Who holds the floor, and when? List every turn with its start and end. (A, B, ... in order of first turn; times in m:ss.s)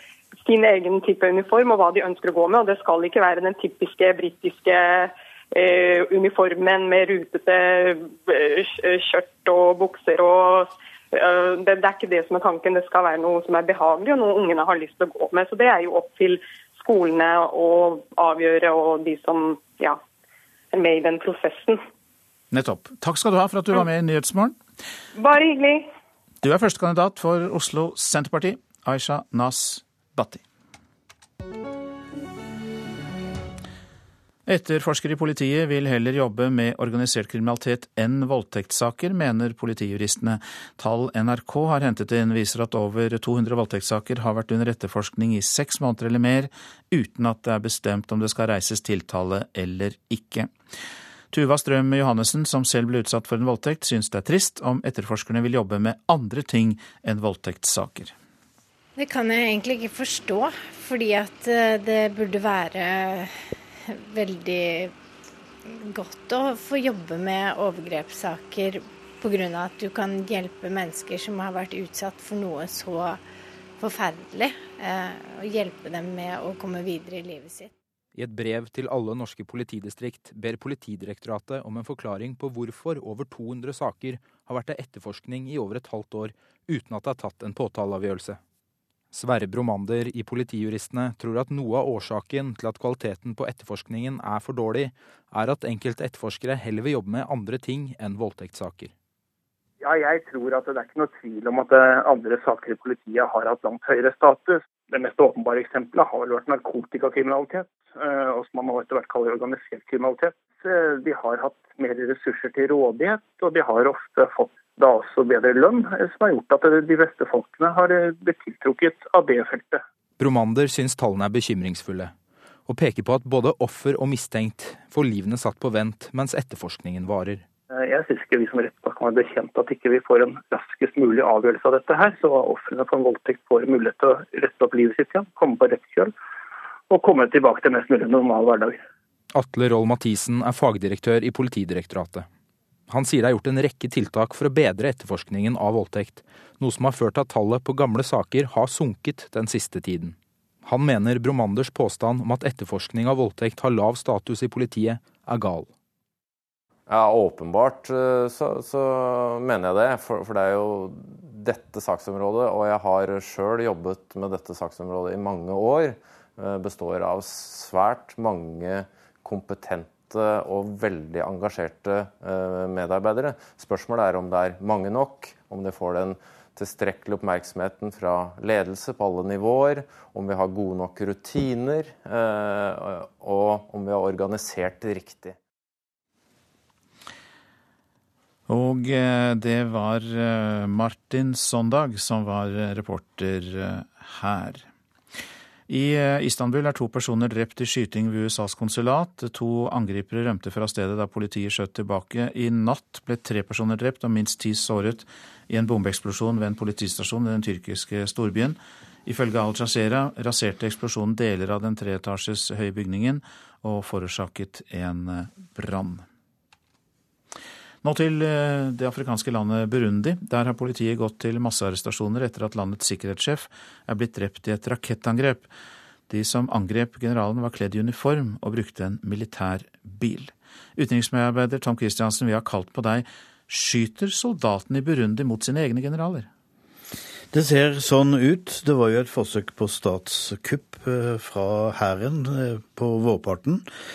0:00.4-0:20.0 A
0:20.7-0:21.8 A
0:22.5-0:24.6 B
0:25.2-0:25.8 A
0:26.4-0:30.4 B
0:34.4-0:50.5 B
0:51.3-0:58.1 B
0:59.0-1:03.3 C
1:04.1-1:04.9 C
1:05.9-1:13.2 C
1:13.8-1:17.7 C
1:18.1-1:28.4 D
1:29.1-1:38.9 D
1:39.8-1:59.8 E
2:00.2-2:02.1 D
2:02.7-2:07.4 D
2:07.7-2:16.1 E
2:16.9-2:18.8 E
2:19.3-2:22.3 D
2:22.9-2:35.7 D
2:36.9-3:05.4 F
3:08.5-3:14.7 B
3:15.7-3:36.0 B
3:37.8-3:45.5 B
3:46.1-3:56.3 B
3:57.3-4:03.6 G